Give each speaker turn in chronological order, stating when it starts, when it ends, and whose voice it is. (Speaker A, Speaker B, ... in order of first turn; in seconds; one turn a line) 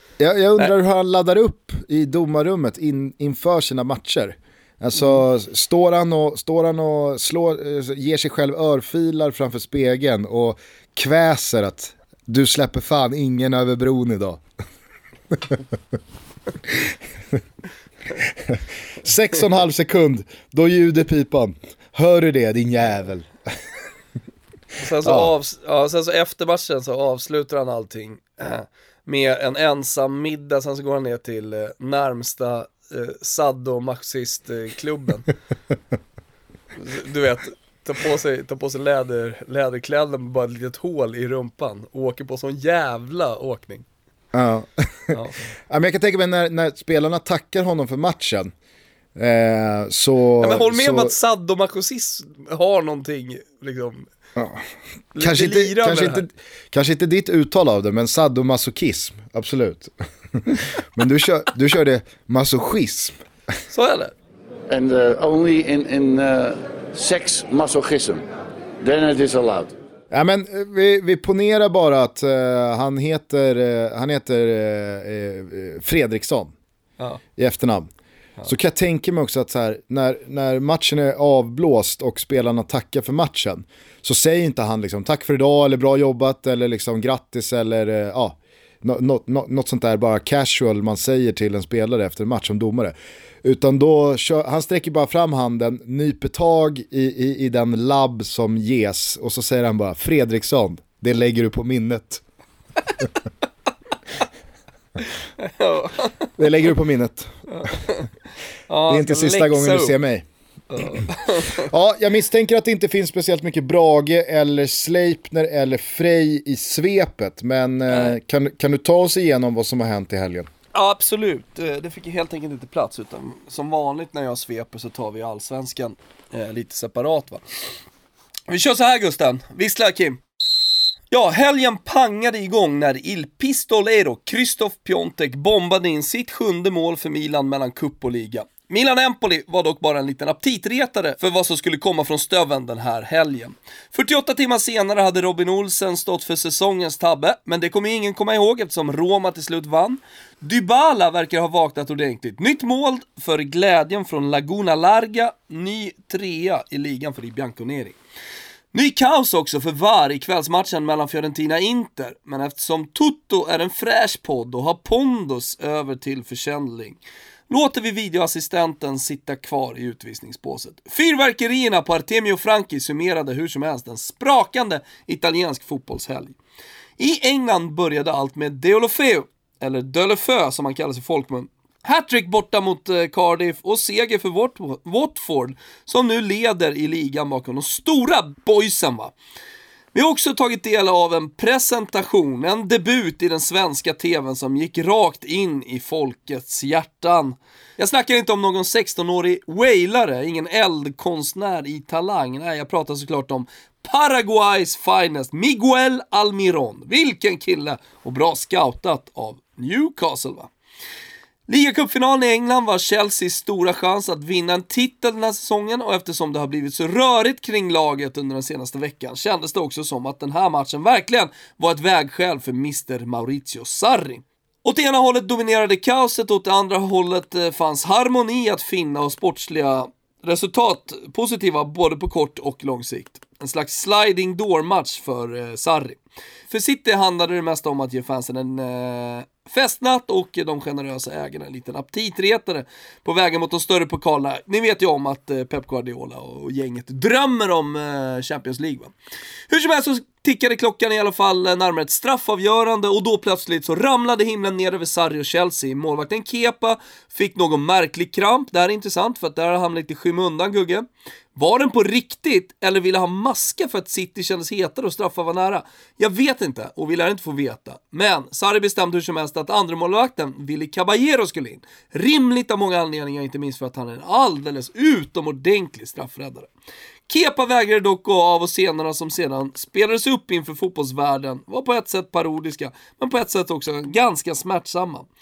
Speaker A: 0.2-14.4
Speaker A: 18.5-23.3
Speaker B: 24.8-35.3
Speaker A: 25.0-25.3
Speaker B: 36.8-43.9
Speaker A: 44.3-45.2
Speaker B: 45.1-45.4
Speaker A: 45.7-48.5
Speaker A: 49.2-51.1
Speaker B: 50.4-54.1
Speaker A: 54.4-54.6
Speaker B: 55.1-56.2
Speaker A: 55.2-63.1
Speaker B: 63.7-64.1
Speaker C: 64.7-68.2
Speaker C: 68.8-69.7
Speaker A: 70.1-76.5
Speaker A: 77.4-77.9
Speaker A: 78.5-102.2
Speaker B: 105.4-106.3
Speaker A: 106.4-107.3
Speaker B: 107.5-108.0
Speaker B: 108.7-109.9
Speaker A: 108.9-110.3
Speaker B: 110.7-111.7
Speaker A: 111.6-120.5
Speaker B: 120.7-127.7
Speaker B: 128.5-130.2
Speaker B: 131.1-158.0
Speaker B: 158.7-176.4
Speaker B: 177.0-189.1
Speaker B: 189.9-210.5
Speaker B: 211.5-248.9
Speaker B: 249.5-276.5
Speaker B: 277.1-285.1